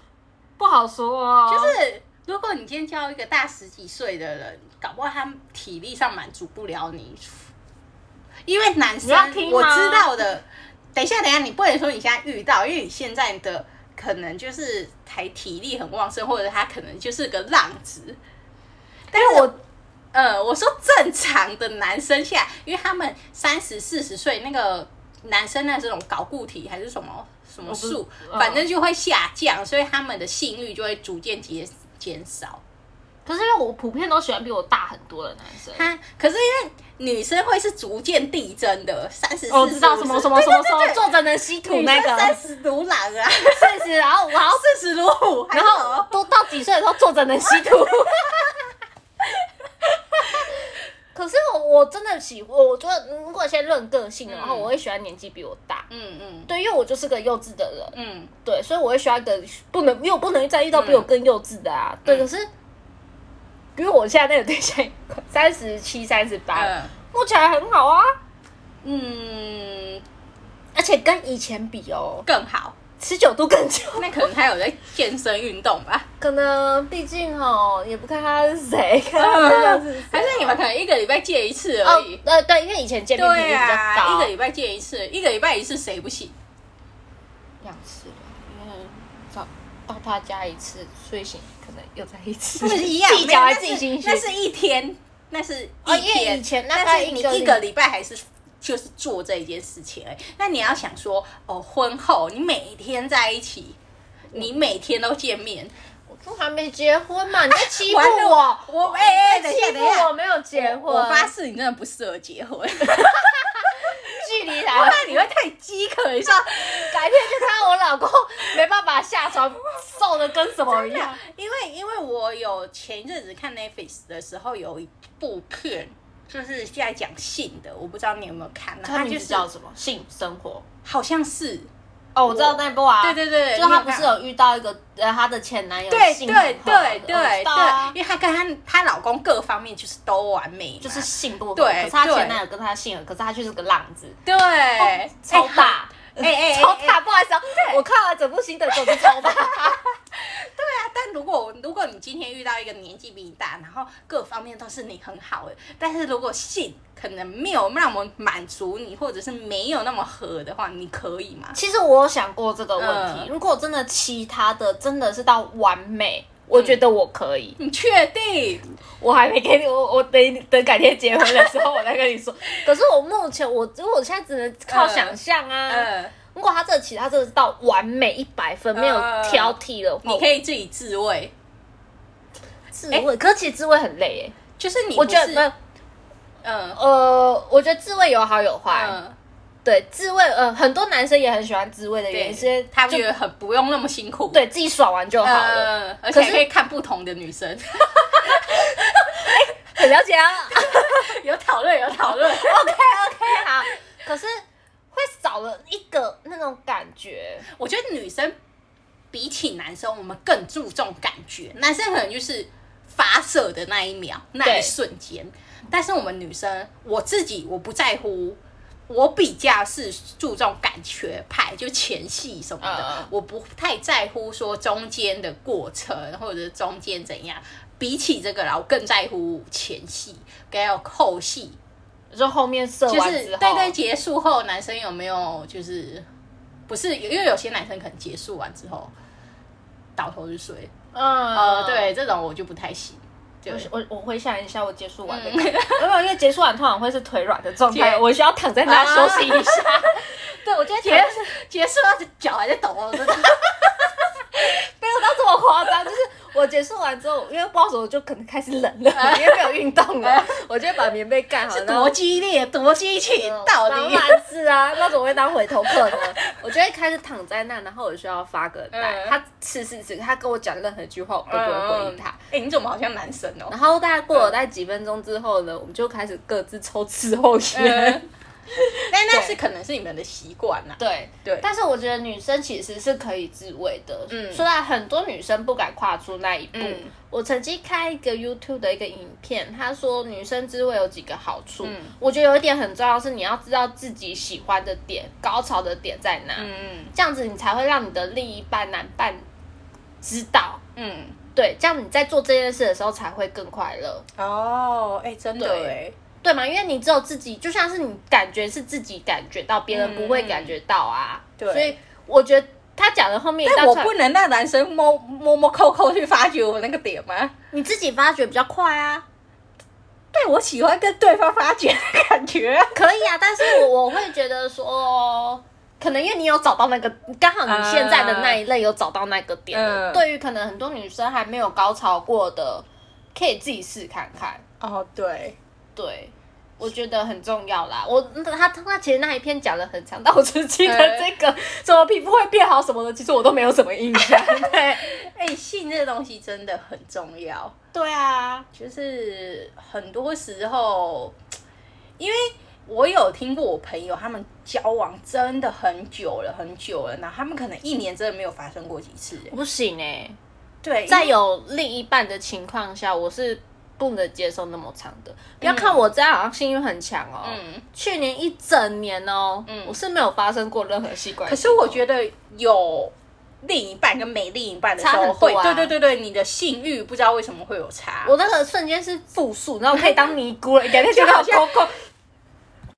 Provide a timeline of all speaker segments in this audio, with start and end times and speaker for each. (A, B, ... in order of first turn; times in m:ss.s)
0:00.6-0:01.8 A
0:01.5-0:07.5 B
0:08.4-0:18.2 B
0:09.0-0:10.1 A
0:19.1-0:19.5 B
0:19.1-0:19.6 A
0:20.1-0:32.6 B
0:27.6-0:28.6 A
0:33.2-0:35.9 A
0:35.7-0:43.8 B
0:39.5-0:42.4 A
0:43.4-0:44.7 A
0:44.3-0:46.1 B
0:45.5-0:48.6 A
0:50.1-0:50.5 A
0:51.1-0:55.9 A
0:54.3-0:54.7 B
0:55.9-0:56.5 B
0:56.5-1:02.5 A
0:57.9-0:58.3 B
1:00.7-1:01.1 B
1:03.8-1:08.1 A
1:06.5-1:06.9 B
1:08.8-1:10.0 B
1:10.7-1:12.3 A
1:12.2-1:12.8 B
1:13.0-1:14.3 A
1:14.0-1:16.1 B
1:16.2-1:20.6 A
1:19.2-1:22.2 B
1:21.8-1:24.3 A
1:23.2-1:26.3 B
1:27.6-1:34.2 A
1:32.6-1:43.8 B
1:35.8-1:37.6 A
1:44.3-1:45.7 B
1:46.1-1:51.3 A
1:47.5-1:57.5 B
1:52.9-1:55.2 A
1:56.7-2:01.2 A
2:00.7-2:09.4 B
2:08.8-2:10.6 A
2:10.8-2:11.7 B
2:12.1-2:17.9 A
2:12.3-2:14.2 B
2:15.9-2:22.4 B
2:20.8-2:24.2 A
2:24.2-2:27.0 B
2:24.8-2:29.8 A
2:27.6-2:27.8 B
2:28.7-2:41.6 B
2:41.5-2:47.6 A
2:42.8-2:43.3 B
2:46.5-2:46.8 B
2:47.6-2:48.6 B
2:49.0-3:00.3 A
2:51.2-2:51.5 B
2:54.7-2:55.2 B
2:55.7-2:56.1 B
2:58.7-3:01.3 B
3:02.7-3:04.4 A
3:04.6-3:05.5 B
3:05.0-3:05.5 A
3:06.4-3:06.8 B
3:06.7-3:09.0 A
3:08.7-3:09.1 B
3:09.6-3:13.0 A
3:12.1-3:14.4 B
3:14.3-3:16.4 A
3:15.2-3:19.4 B
3:18.2-3:21.1 A
3:20.5-3:23.4 B
3:22.0-3:24.4 A
3:24.9-3:27.5 A
3:27.4-3:28.3 B
3:29.1-3:51.6 B
3:34.4-3:34.7 A
3:42.6-3:43.1 A
3:52.1-3:53.7 A
3:52.9-3:56.1 B
3:56.7-3:58.9 B
4:00.0-4:00.7 B
4:00.9-4:01.9 A
4:01.3-4:03.7 B
4:03.5-4:11.2 A
4:05.1-4:05.8 B
4:07.7-4:08.0 B
4:08.6-4:09.8 B
4:10.8-4:13.9 B
4:14.4-4:21.9 A
4:18.9-4:20.3 B
4:21.5-4:24.2 B
4:23.1-4:32.2 A
4:25.6-4:26.2 B
4:28.7-4:29.2 B
4:31.3-4:33.5 B
4:33.5-4:39.4 A
4:37.5-4:38.0 B
4:38.9-4:41.4 B
4:40.8-4:59.2 A
4:44.1-4:44.4 B
4:46.5-4:46.9 B
4:51.6-4:51.9 B
4:56.4-4:56.9 B
5:00.0-5:00.6 A
5:00.8-5:01.2 B
5:01.3-5:04.0 A
5:04.2-5:06.0 B
5:05.4-5:13.9 A
5:09.7-5:10.5 B
5:11.4-5:11.7 B
5:13.4-5:17.3 B
5:17.5-5:19.0 A
5:20.1-5:22.8 B
5:22.7-5:34.4 A
5:27.5-5:28.4 B
5:29.5-5:30.0 B
5:34.6-5:35.4 B
5:35.8-5:45.0 A
5:40.6-5:41.1 B
5:44.0-5:47.6 B
5:47.7-5:48.5 A
5:48.5-5:51.2 B
5:52.0-5:59.3 B
5:59.3-6:00.2 A
6:00.6-6:01.1 B
6:00.9-6:11.8 A
6:05.4-6:05.8 B
6:07.2-6:07.6 B
6:09.5-6:09.8 B
6:11.3-6:18.1 B
6:14.8-6:15.7 A
6:18.0-6:21.7 A
6:19.7-6:20.1 B
6:20.6-6:21.7 B